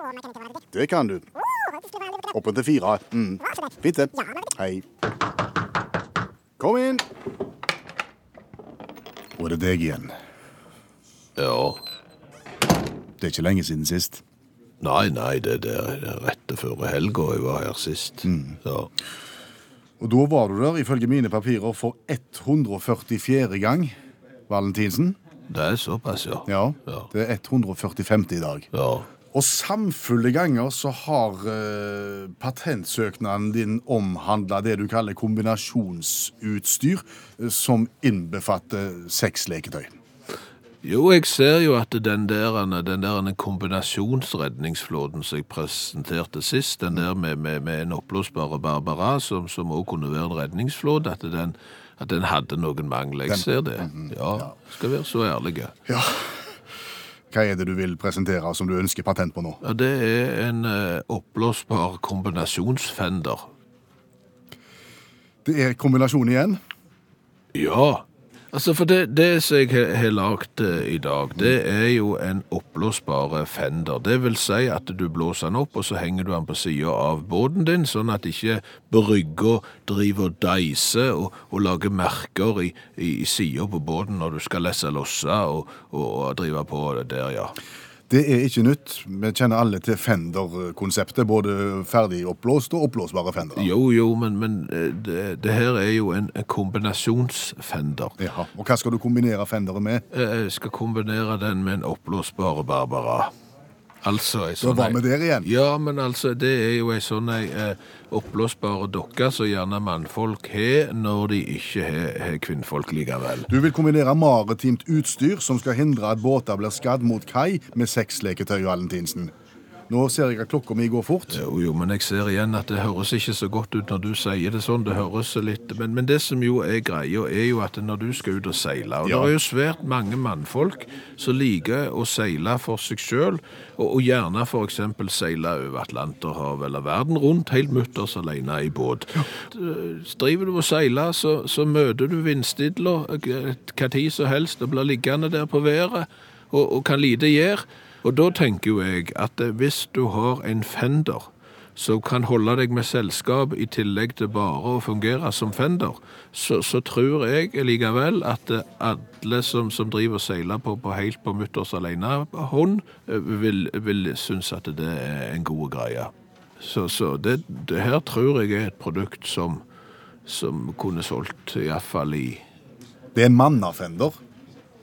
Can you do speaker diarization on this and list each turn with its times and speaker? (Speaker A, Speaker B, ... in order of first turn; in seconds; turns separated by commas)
Speaker A: 0.3-1.3, Speaker A: 2.0-4.9, Speaker A: 6.6-7.0, Speaker A: 9.4-10.1, Speaker B: 11.4-11.8, Speaker A: 13.2-14.2, Speaker B: 14.8-18.9, Speaker A: 18.2-18.6, Speaker A: 20.0-23.9, Speaker A: 24.5-25.2, Speaker B: 25.5-27.1, Speaker A: 26.5-28.7, Speaker B: 28.7-29.1, Speaker A: 29.3-39.9, Speaker B: 40.8-55.8, Speaker A: 53.3-54.5, Speaker A: 55.9-56.5, Speaker A: 57.3-59.6, Speaker B: 59.6-63.5, Speaker A: 65.4-66.6, Speaker B: 67.5-87.5, Speaker A: 88.1-93.7, Speaker B: 93.5-98.2, Speaker A: 98.2-100.0, Speaker B: 100.1-103.3, Speaker B: 104.0-113.5, Speaker A: 104.6-105.5, Speaker A: 113.5-119.3, Speaker A: 119.9-121.4, Speaker B: 121.3-169.6, Speaker A: 129.0-129.3, Speaker B: 170.2-172.4, Speaker A: 173.1-174.2